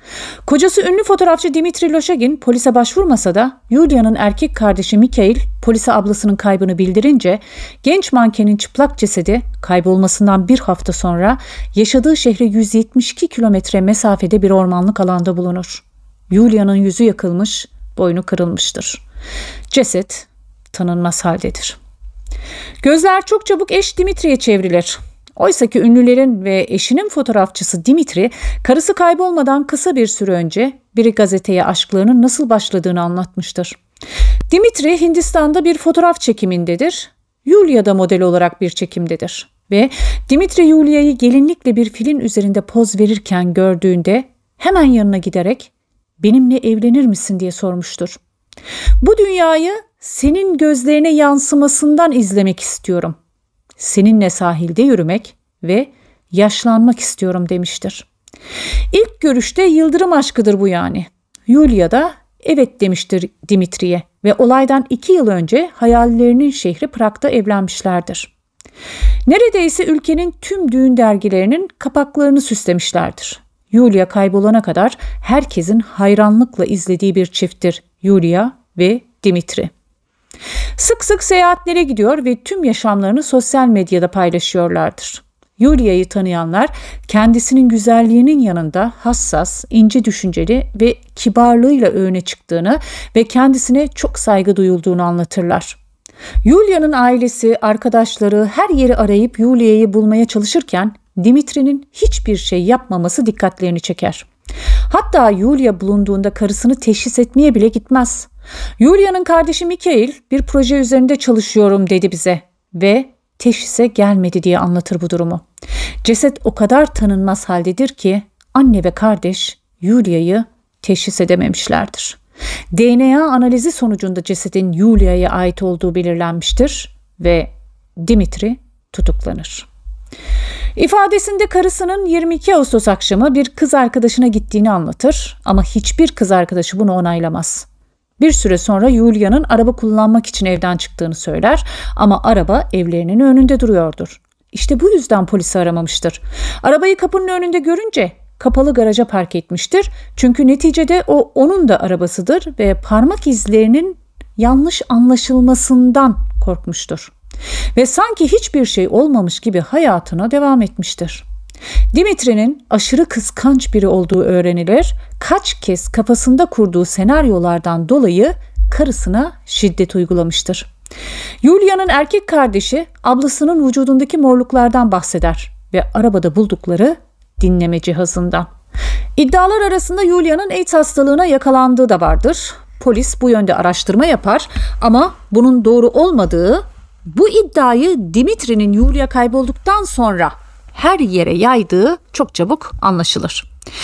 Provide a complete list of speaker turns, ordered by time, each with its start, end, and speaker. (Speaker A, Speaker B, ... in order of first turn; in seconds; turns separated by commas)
Speaker A: 0.5-19.0, Speaker A: 19.7-21.8, Speaker A: 22.8-33.8, Speaker A: 34.5-48.2, Speaker A: 49.0-53.2, Speaker A: 53.8-58.1, Speaker A: 58.9-68.3, Speaker A: 69.3-79.7, Speaker A: 80.8-95.8, Speaker A: 96.4-104.3, Speaker A: 104.9-115.4, Speaker A: 116.0-122.2, Speaker A: 122.7-129.7, Speaker A: 130.8-137.7, Speaker A: 138.2-157.1, Speaker A: 157.8-161.3, Speaker A: 161.9-170.7, Speaker A: 171.4-178.5, Speaker A: 179.2-193.5